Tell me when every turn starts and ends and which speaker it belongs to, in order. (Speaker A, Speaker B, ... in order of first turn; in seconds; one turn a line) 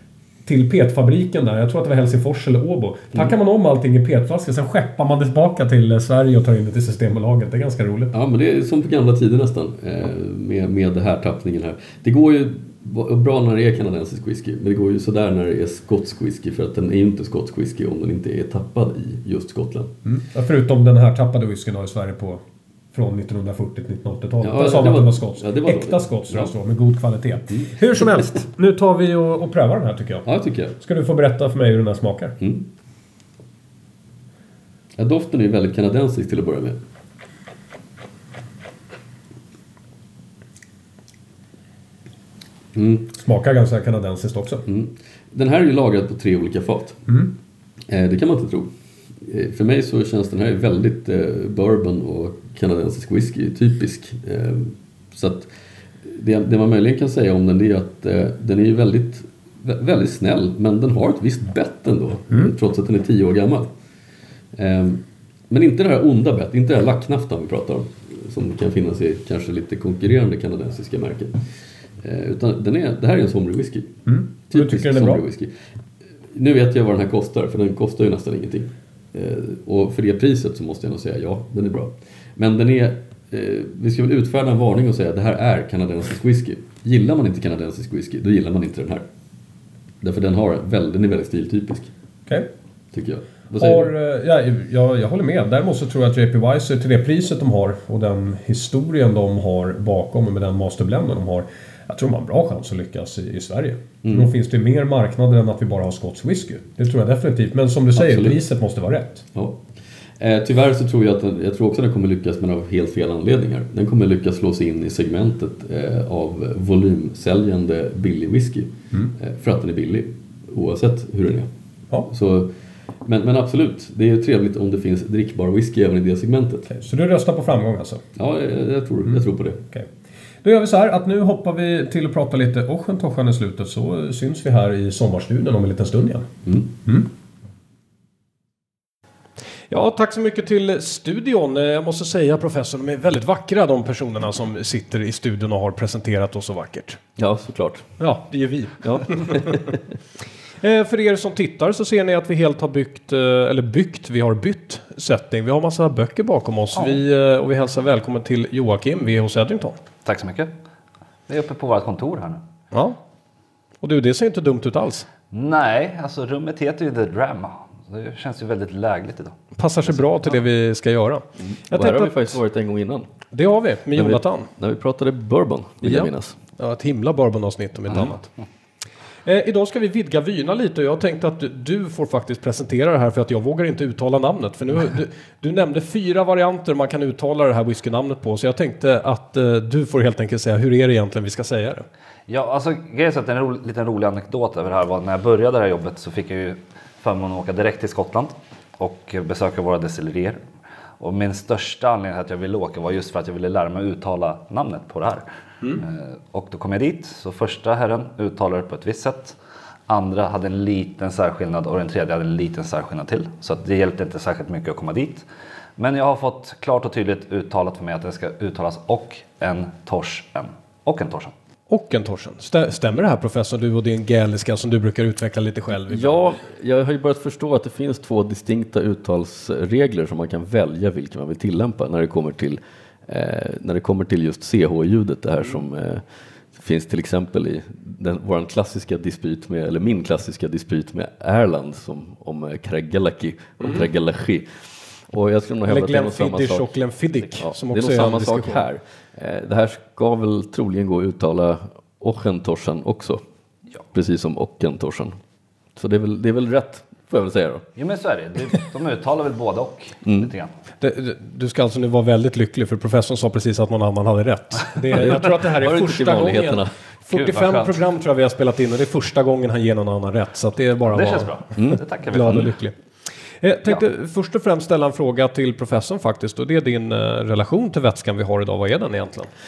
Speaker A: 0.5-8.1
Speaker B: 8.1-19.9
Speaker A: 20.0-22.4
Speaker A: 22.9-30.2
Speaker B: 24.4-26.5
Speaker B: 27.5-28.4
Speaker B: 30.2-30.8
Speaker A: 30.8-32.4
Speaker B: 32.4-32.7
Speaker B: 35.0-36.8
Speaker B: 42.7-43.1
Speaker A: 43.1-44.6
Speaker B: 44.6-47.0
Speaker B: 47.9-55.5
Speaker B: 56.0-63.7
Speaker B: 64.5-71.4
Speaker B: 72.0-74.0
Speaker A: 74.0-75.2
Speaker B: 74.5-75.5
Speaker B: 76.3-89.0
Speaker B: 90.0-91.9
Speaker B: 92.9-93.9
Speaker A: 93.5-109.2
Speaker B: 104.0-104.3
Speaker B: 107.9-108.4
Speaker B: 109.3-109.6
Speaker B: 110.2-121.5
Speaker B: 122.1-122.5
Speaker B: 123.0-126.7
Speaker A: 126.7-128.0
Speaker B: 128.2-129.6
Speaker A: 130.4-136.3
Speaker B: 136.4-136.7
Speaker A: 139.7-147.0
Speaker B: 147.2-147.9
Speaker A: 148.0-149.6
Speaker B: 148.8-149.8
Speaker A: 150.6-159.8
Speaker C: 156.7-157.0
Speaker C: 160.0-160.5
Speaker C: 161.3-162.4
Speaker A: 162.7-163.0
Speaker A: 163.8-165.1
Speaker C: 165.3-169.3
Speaker A: 169.6-172.4
Speaker B: 171.4-173.1
Speaker A: 173.3-174.5
Speaker B: 173.9-176.3
Speaker A: 175.8-178.3
Speaker A: 179.2-191.8
Speaker C: 192.3-200.4
Speaker C: 201.0-209.4
Speaker C: 209.9-215.2
Speaker C: 215.8-221.3
Speaker A: 221.7-226.3
Speaker B: 225.8-236.0
Speaker B: 236.5-246.8
Speaker A: 245.7-248.6
Speaker B: 247.4-253.2
Speaker B: 253.9-255.2
Speaker B: 255.8-257.6
Speaker C: 257.8-260.5
Speaker B: 260.0-260.3
Speaker A: 260.8-272.7
Speaker B: 264.9-266.7
Speaker C: 267.1-267.8
Speaker C: 270.9-272.5
Speaker A: 273.4-279.3